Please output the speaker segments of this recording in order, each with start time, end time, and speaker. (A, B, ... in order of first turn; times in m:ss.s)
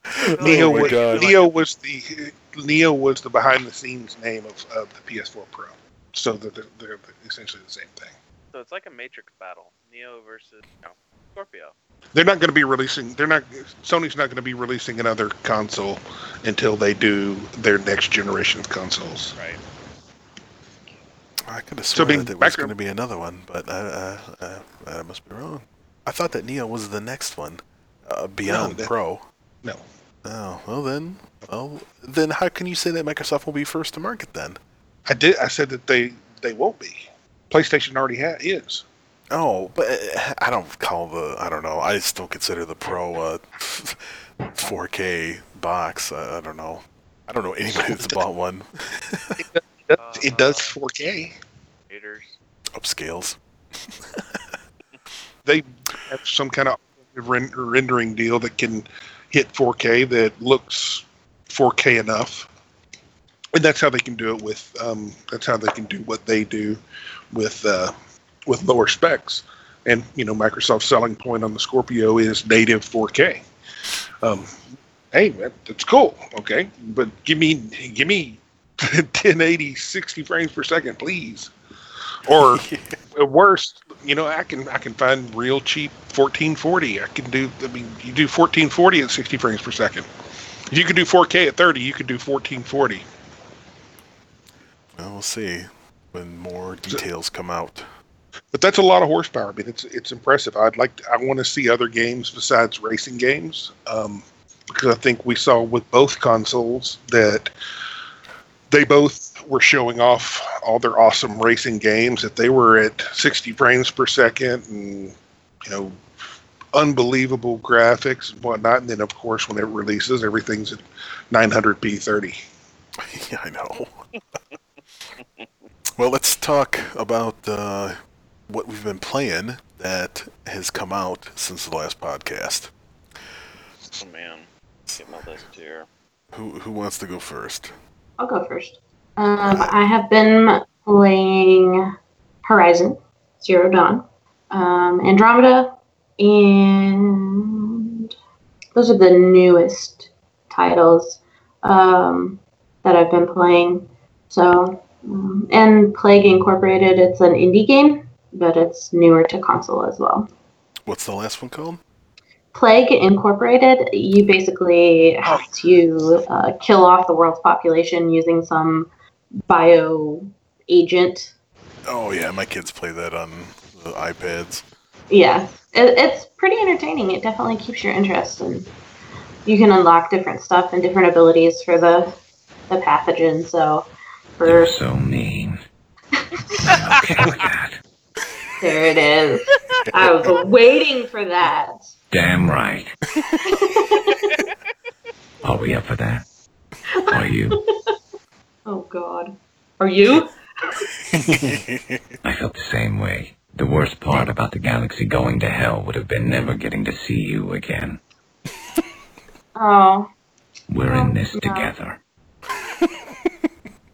0:00.2-0:01.5 A
0:00.2-0:01.3 B
0:00.4-0:08.1 C
0:08.5-0:11.7 A
0:12.1-0:19.4 C
0:21.5-0:29.2 B
0:21.9-0:22.7 C
0:28.4-0:28.9 C
0:30.2-0:34.6 B
0:35.1-0:38.8 C
0:39.3-0:44.0 B
0:44.5-0:49.4 B
0:47.7-0:48.2 C
0:49.4-0:51.4 C
0:50.0-0:50.8 A
0:51.9-0:52.4 A
0:52.8-0:54.4 B
0:55.4-1:02.5 C
1:03.5-1:06.8 C
1:07.3-1:07.9 C
1:08.5-1:13.4 C
1:14.2-1:21.5 C
1:22.2-1:30.0 C
1:22.4-1:23.0 B
1:30.7-1:33.0 C
1:34.9-1:37.8 B
1:38.5-1:47.5 C
1:48.7-1:56.0 C
1:56.7-2:02.4 C
2:03.0-2:04.0 B
2:06.0-2:08.0 B
2:08.5-2:12.7 B
2:14.0-2:14.5 A
2:15.0-2:15.8 A
2:16.3-2:17.7 B
2:18.2-2:21.8 D
2:19.4-2:19.7 B
2:22.4-2:28.1 D
2:28.7-2:40.3 D
2:40.9-2:41.8 B
2:42.5-2:48.9 D
2:45.2-2:45.8 C
2:49.5-2:51.3 D
2:51.8-2:54.6 B
2:55.1-2:58.7 D
2:59.4-3:02.1 D
3:02.7-3:03.9 D
3:04.4-3:04.8 D
3:04.4-3:05.6 E
3:06.2-3:06.8 D
3:06.8-3:07.8 E
3:08.6-3:11.9 D
3:09.8-3:10.4 B
3:12.1-3:13.0 E
3:13.2-3:13.4 B
3:13.5-3:14.2 D
3:15.4-3:16.2 E
3:17.0-3:17.9 D
3:17.1-3:17.6 E
3:18.6-3:20.8 D
3:21.1-3:22.2 B
3:22.2-3:28.0 E
3:29.6-3:30.1 D
3:30.7-3:32.0 E
3:30.8-3:31.7 D